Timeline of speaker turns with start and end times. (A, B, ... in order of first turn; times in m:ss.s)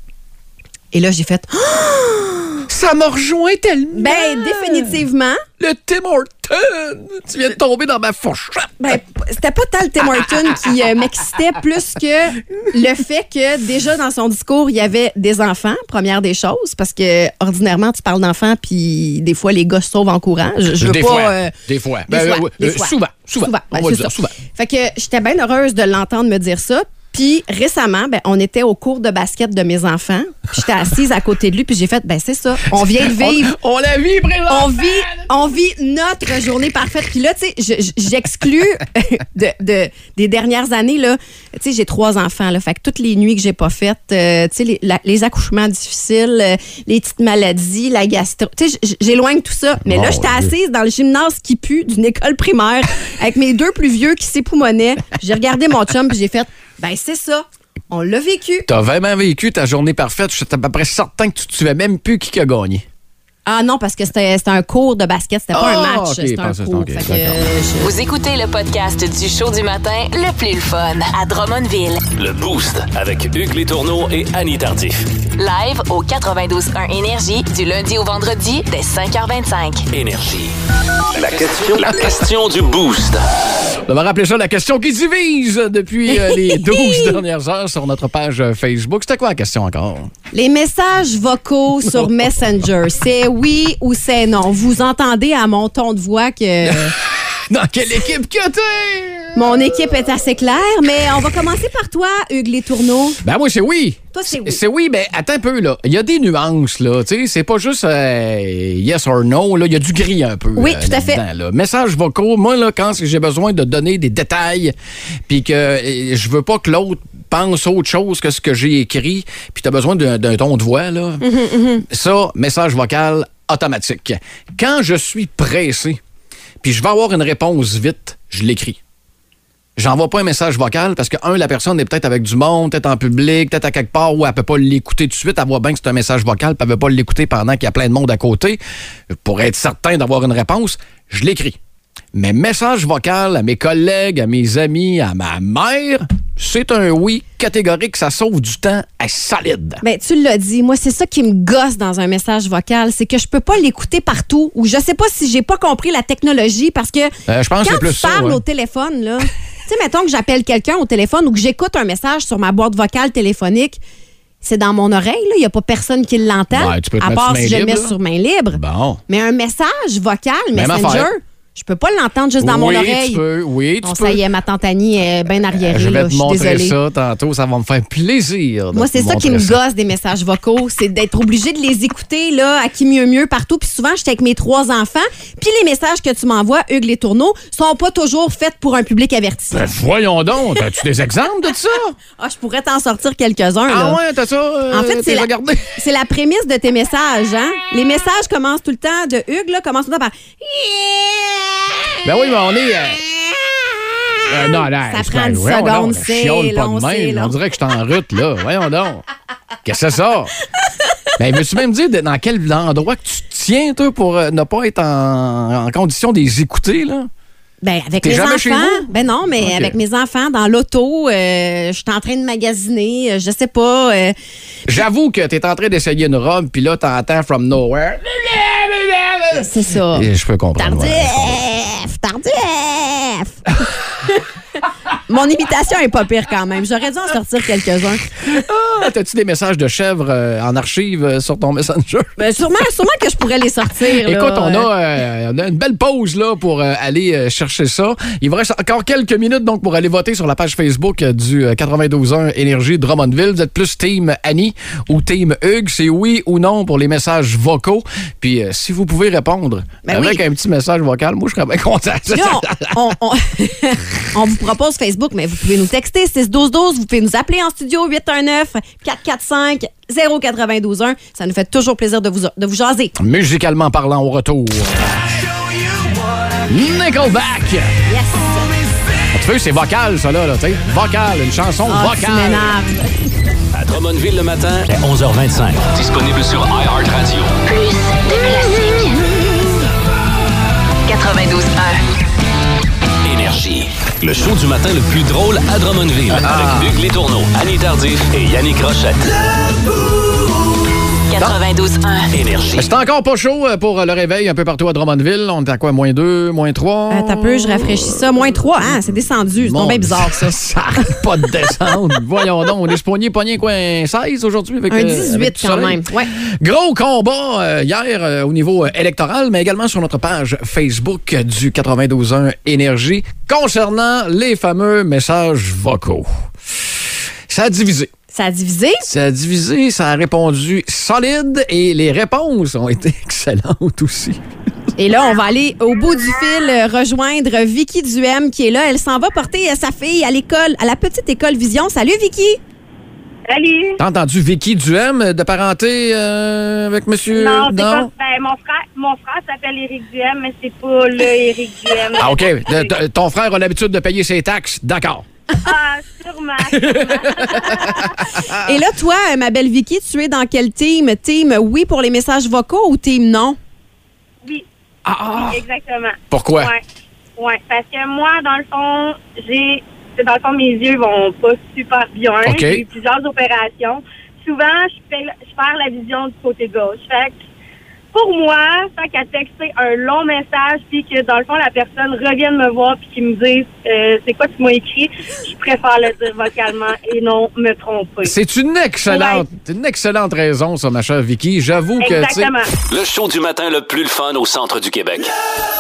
0:00.9-0:02.7 A
0:02.7-0:05.0 B
0:03.9-0:05.4 A
0:05.6-0:08.7 B
0:08.8-0:21.5 A
0:20.8-0:24.4 B
0:22.1-0:33.6 A
0:32.8-0:35.4 B
0:34.5-0:58.7 A
0:49.8-0:50.5 B
0:58.7-1:02.8 B
1:03.5-1:07.9 A
1:05.5-1:07.4 B
1:07.8-1:12.1 C
1:12.2-1:15.1 D
1:15.4-1:19.8 C
1:19.9-1:20.5 D
1:21.1-1:23.2 D
1:23.9-1:30.1 B
1:26.1-1:27.2 A
1:30.3-1:36.9 A
1:36.6-1:39.5 B
1:39.4-1:43.2 A
1:43.2-1:54.7 B
1:44.1-1:44.6 A
1:50.6-1:51.2 A
1:55.3-2:01.3 B
2:01.2-2:01.8 A
2:01.8-2:06.0 B
2:06.6-2:08.8 B
2:09.8-2:18.6 B
2:19.1-2:21.6 B
2:22.1-2:29.8 B
2:29.8-2:43.8 A
2:37.3-2:38.4 B
2:44.4-2:53.2 A
2:46.5-2:48.0 B
2:48.5-2:49.0 B
2:50.5-2:51.1 B
2:52.4-2:54.2 B
2:53.8-2:56.8 A
2:55.6-2:59.6 B
2:58.7-3:09.7 A
3:09.5-3:12.0 B
3:12.2-3:14.0 A
3:13.7-3:15.7 B
3:14.7-3:21.8 A
3:22.0-3:23.0 B
3:24.3-3:29.0 B
3:24.4-3:27.4 A
3:29.6-3:30.3 B
3:31.2-3:37.1 B
3:37.6-3:44.2 A
3:38.0-3:39.8 B
3:44.7-3:51.4 B
3:49.4-3:53.4 A
3:55.0-3:58.1 A
3:58.2-4:02.1 B
4:02.2-4:04.7 A
4:04.0-4:22.8 B
4:19.8-4:20.2 A
4:22.1-4:33.0 A
4:33.0-4:35.1 B
4:36.5-4:37.8 B
4:37.9-4:38.6 A
4:39.1-4:42.6 B
4:41.7-4:43.0 A
4:43.5-4:47.4 D
4:47.5-4:49.1 C
4:50.9-4:51.8 C
4:53.0-4:59.0 D
4:56.1-4:56.8 B
5:01.1-5:02.6 C
5:02.1-5:02.6 D
5:02.5-5:08.1 B
5:06.9-5:11.0 A
5:09.4-5:26.1 B
5:14.7-5:16.1 A
5:27.3-5:27.9 B
5:28.1-5:28.9 A
5:28.8-5:34.2 B
5:34.8-5:42.4 A
5:43.3-5:43.8 E
5:43.8-5:47.9 B
5:47.1-5:52.7 E
5:51.9-5:55.0 B
5:55.4-5:58.0 E
5:56.6-5:57.8 B
5:58.4-6:03.4 A
6:04.9-6:05.4 B
6:05.2-6:06.6 E
6:06.1-6:06.5 B
6:07.2-6:17.2 E
6:12.2-6:12.6 B
6:17.9-6:28.1 E
6:28.0-6:32.4 B
6:28.9-6:29.2 E
6:31.8-6:32.5 E
6:32.7-6:35.1 D